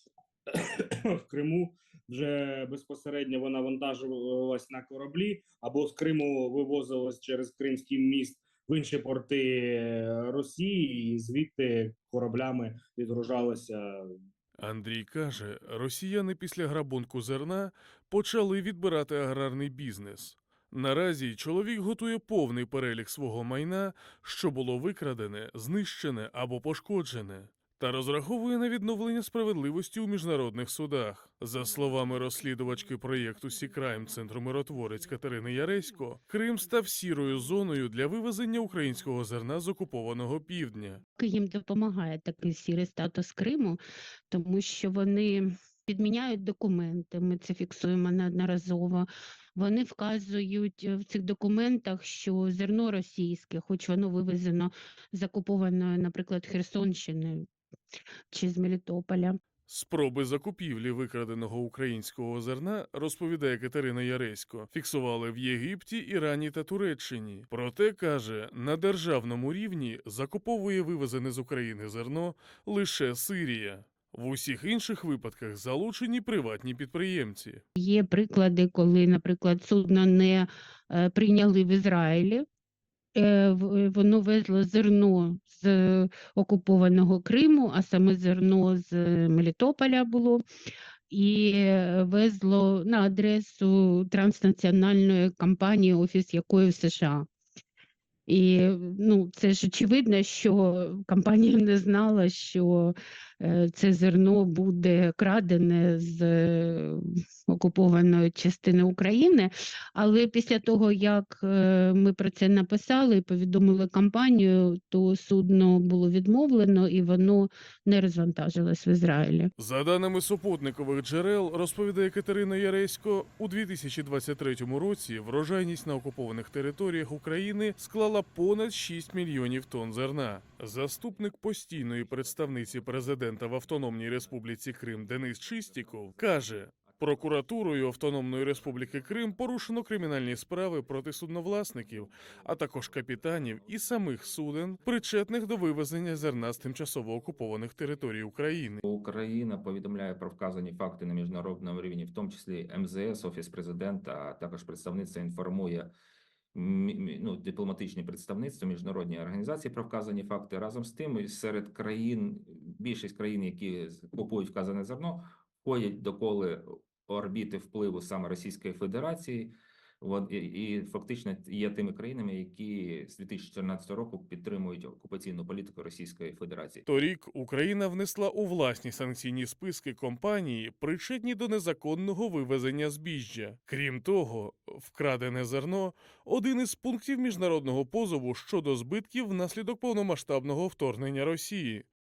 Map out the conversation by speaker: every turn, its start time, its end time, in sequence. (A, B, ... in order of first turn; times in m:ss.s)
0:00.5-0:14.1 A
0:14.6-0:41.0 B
0:41.2-0:43.8 C
0:44.3-0:57.4 C
0:58.3-0:59.4 C
0:59.7-1:17.6 B
1:17.8-1:22.4 C
1:23.2-1:30.4 C
1:31.1-1:37.3 C
1:38.3-1:59.5 C
1:59.6-2:28.8 B
2:28.8-2:35.9 D
2:36.5-2:56.8 D
2:56.8-3:11.8 B